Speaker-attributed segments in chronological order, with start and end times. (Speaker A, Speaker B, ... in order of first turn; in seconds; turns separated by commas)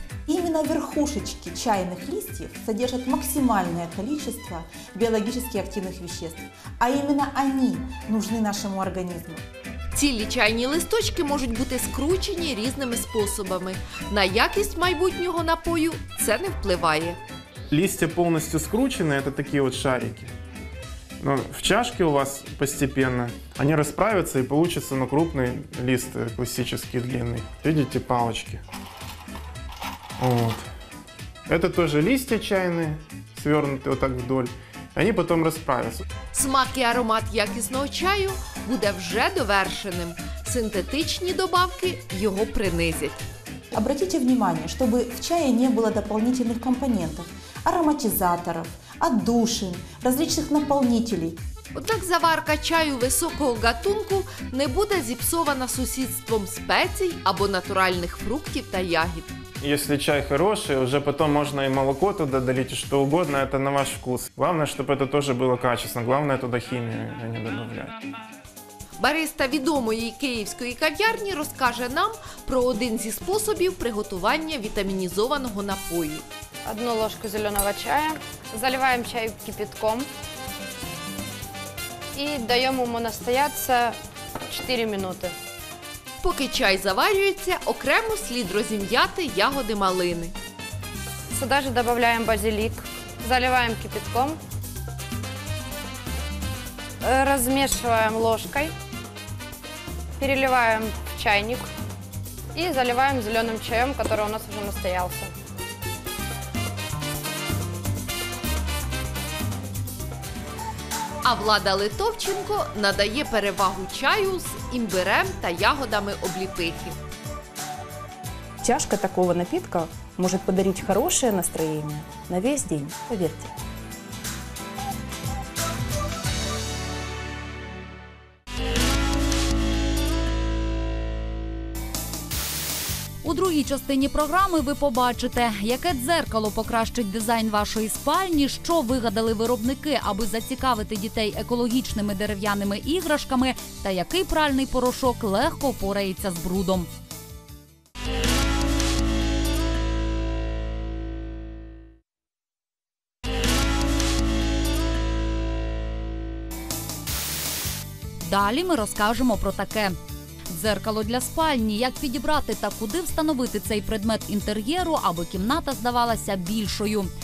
Speaker A: 0.2-9.4, Speaker B: 9.9-17.2, Speaker C: 17.7-20.3, Speaker C: 21.2-28.6, Speaker C: 30.2-30.7, Speaker C: 31.5-36.1, Speaker B: 36.3-43.2, Speaker A: 43.7-51.4, Speaker B: 51.8-59.3, Speaker C: 59.6-68.0, Speaker B: 69.0-76.2, Speaker D: 76.6-80.1, Speaker D: 82.1-84.0, Speaker D: 84.5-85.3, Speaker B: 86.2-90.3, Speaker D: 91.3-94.4, Speaker D: 97.0-98.7, Speaker D: 100.2-101.7, Speaker D: 102.5-105.3, Speaker B: 111.2-117.0, Speaker E: 118.6-123.5, Speaker F: 133.2-146.9, Speaker F: 158.2-159.9, Speaker F: 160.5-167.1